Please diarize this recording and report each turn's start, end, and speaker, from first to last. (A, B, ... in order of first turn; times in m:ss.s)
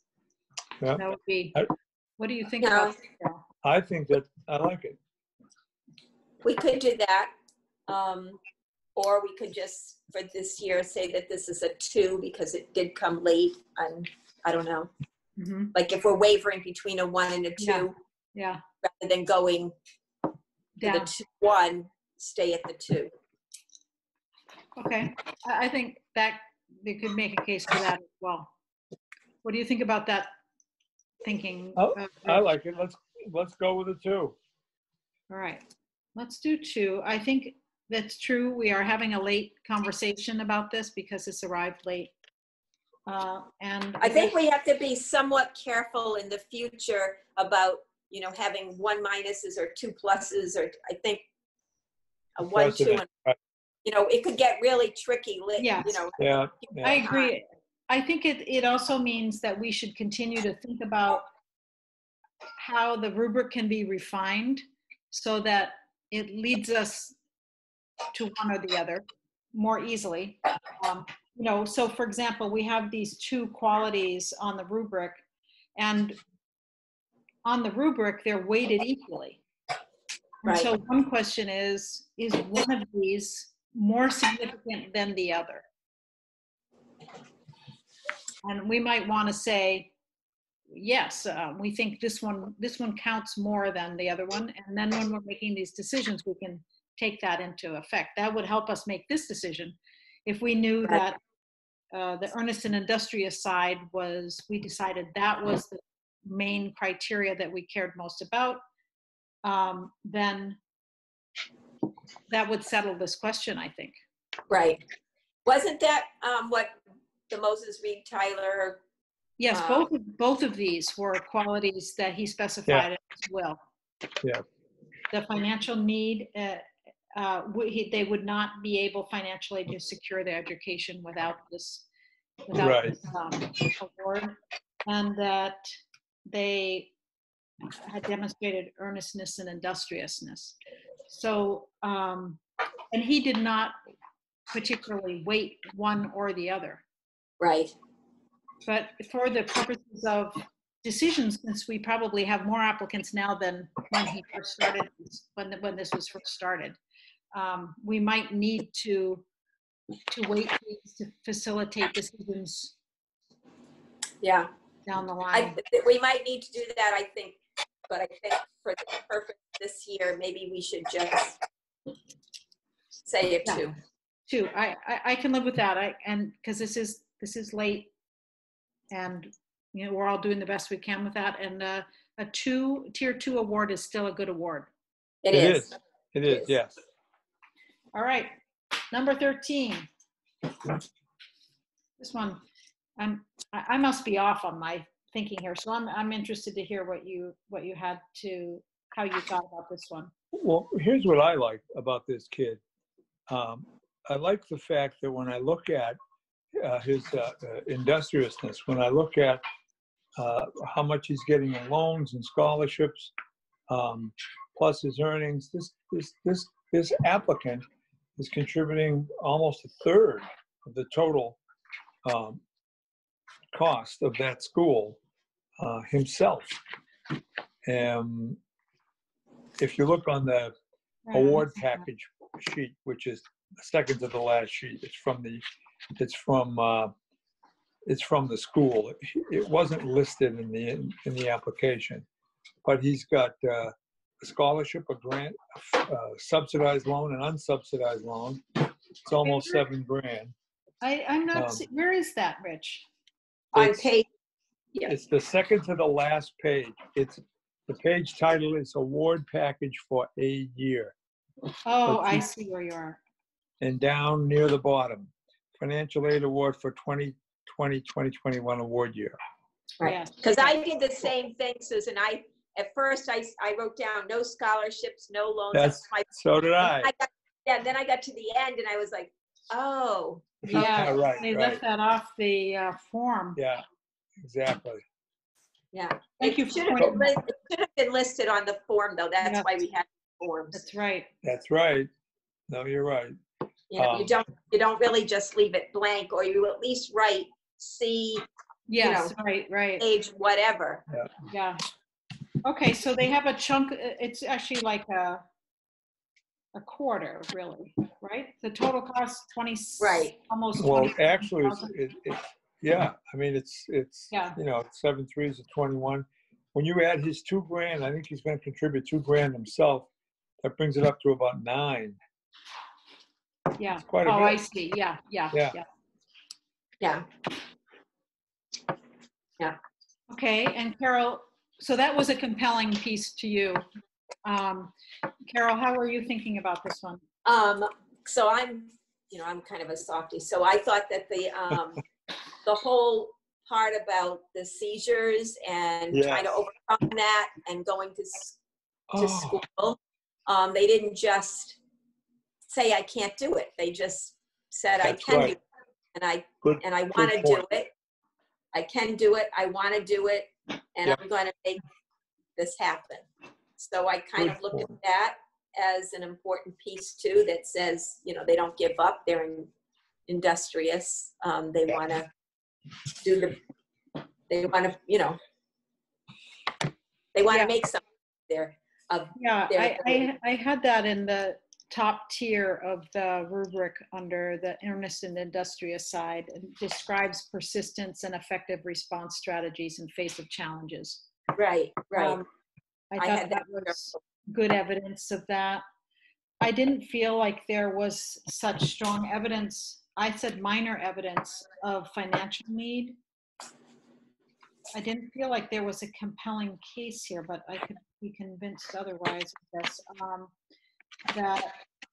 0:01.0-0:01.6 A
0:02.2-0:03.4 A
0:02.6-0:03.0 B
0:03.6-0:05.0 C
0:06.4-0:07.3 B
0:07.9-0:08.4 B
0:09.0-0:14.9 B
0:15.4-0:15.7 A
0:15.8-0:18.0 B
0:17.6-0:18.6 A
0:18.8-0:19.7 B
0:20.8-0:21.1 A
0:20.8-0:23.1 B
0:24.8-0:28.5 A
0:29.4-0:30.4 A
0:31.2-0:32.4 A
0:31.8-0:34.4 C
0:35.3-0:35.6 A
0:36.2-0:42.1 A
0:43.1-0:44.3 A
0:44.0-0:51.2 B
0:52.4-0:53.1 B
0:52.5-0:53.4 C
0:53.8-0:57.3 B
0:55.6-0:56.0 A
0:56.2-0:57.0 C
0:56.8-1:01.3 A
1:02.6-1:07.2 A
1:08.1-1:15.2 A
1:15.8-1:16.2 A
1:17.4-1:19.4 A
1:20.4-1:25.6 A
1:20.5-1:20.7 B
1:28.4-1:29.9 A
1:30.7-1:41.2 A
1:41.9-1:48.6 A
1:49.4-1:50.6 A
1:52.3-1:54.0 A
1:54.5-1:54.8 B
1:55.4-1:56.8 B
1:57.3-1:58.8 B
1:59.4-2:03.6 A
1:59.5-1:59.9 B
2:05.1-2:11.9 A
2:12.5-2:16.9 A
2:12.6-2:13.0 C
2:17.8-2:20.6 A
2:21.1-2:22.4 A
2:22.9-2:23.8 A
2:24.5-2:26.8 A
2:27.4-2:27.8 B
2:28.7-2:36.8 A
2:37.3-2:39.2 A
2:40.1-2:42.7 A
2:44.2-2:44.5 B
2:44.9-2:45.6 A
2:45.3-2:51.4 B
2:53.1-2:53.7 B
2:54.3-2:57.9 A
2:58.9-3:04.7 A
3:05.2-3:05.7 B
3:05.3-3:06.8 C
3:06.3-3:06.5 B
3:07.9-3:08.3 A
3:08.9-3:09.9 A
3:12.0-3:12.4 A
3:13.0-3:20.1 A
3:20.3-3:22.6 C
3:23.3-3:26.0 C
3:26.6-3:29.4 C
3:30.2-3:33.1 C
3:33.7-3:37.6 C
3:38.2-3:41.4 C
3:42.0-3:42.4 C
3:43.5-3:45.0 C
3:45.6-3:46.6 C
3:47.6-3:48.4 C
3:49.6-3:50.6 C
3:51.1-3:51.9 A
3:51.1-3:55.4 C
3:56.0-3:56.9 C
3:57.9-4:02.1 C
4:02.6-4:08.4 C
4:09.0-4:10.3 C
4:09.2-4:09.6 A
4:10.8-4:12.8 A
4:11.3-4:11.6 C
4:13.5-4:14.1 B
4:14.9-4:21.0 C
4:21.7-4:23.0 A
4:21.9-4:22.3 C
4:23.6-4:29.2 C
4:29.8-4:40.9 B
4:29.8-4:30.6 A
4:35.5-4:36.9 C
4:40.5-4:41.6 C
4:40.5-4:43.4 A
4:43.4-4:43.6 C
4:44.2-4:44.8 C
4:45.7-4:50.6 B
4:46.2-4:47.2 A
4:49.2-4:49.5 A
4:50.5-4:51.1 A
4:51.2-4:51.9 C
4:52.5-4:53.2 C
4:53.7-4:58.2 B
4:53.8-4:54.2 C
4:58.7-4:59.8 A
4:58.8-4:59.1 B
4:59.8-5:00.8 B
5:01.3-5:01.6 A
5:02.4-5:05.2 A
5:06.5-5:11.7 A
5:09.8-5:10.2 B
5:10.6-5:19.9 C
5:14.1-5:14.4 A
5:20.4-5:22.0 C
5:23.6-5:25.6 A
5:23.9-5:24.4 C
5:26.8-5:27.1 B
5:30.1-5:33.6 A
5:34.2-5:34.7 A
5:35.3-5:37.0 A
5:37.2-5:41.8 B
5:42.4-5:48.4 B
5:45.9-5:46.4 C
5:48.9-5:49.4 C
5:49.0-5:51.6 B
5:52.5-5:55.4 B
5:54.8-5:55.4 C
5:55.9-5:57.7 B
5:56.4-5:57.4 C
5:58.5-6:01.6 B
6:02.4-6:03.1 B
6:03.6-6:09.5 B
6:04.2-6:04.8 C
6:10.1-6:12.1 B
6:13.0-6:13.4 B
6:14.3-6:15.2 B
6:17.2-6:20.2 B
6:19.2-6:31.0 A
6:31.4-6:32.2 B
6:32.0-6:32.2 A
6:32.9-6:35.6 A
6:33.0-6:34.0 B
6:36.4-6:43.0 A
6:44.7-6:50.3 A
6:51.1-6:51.6 A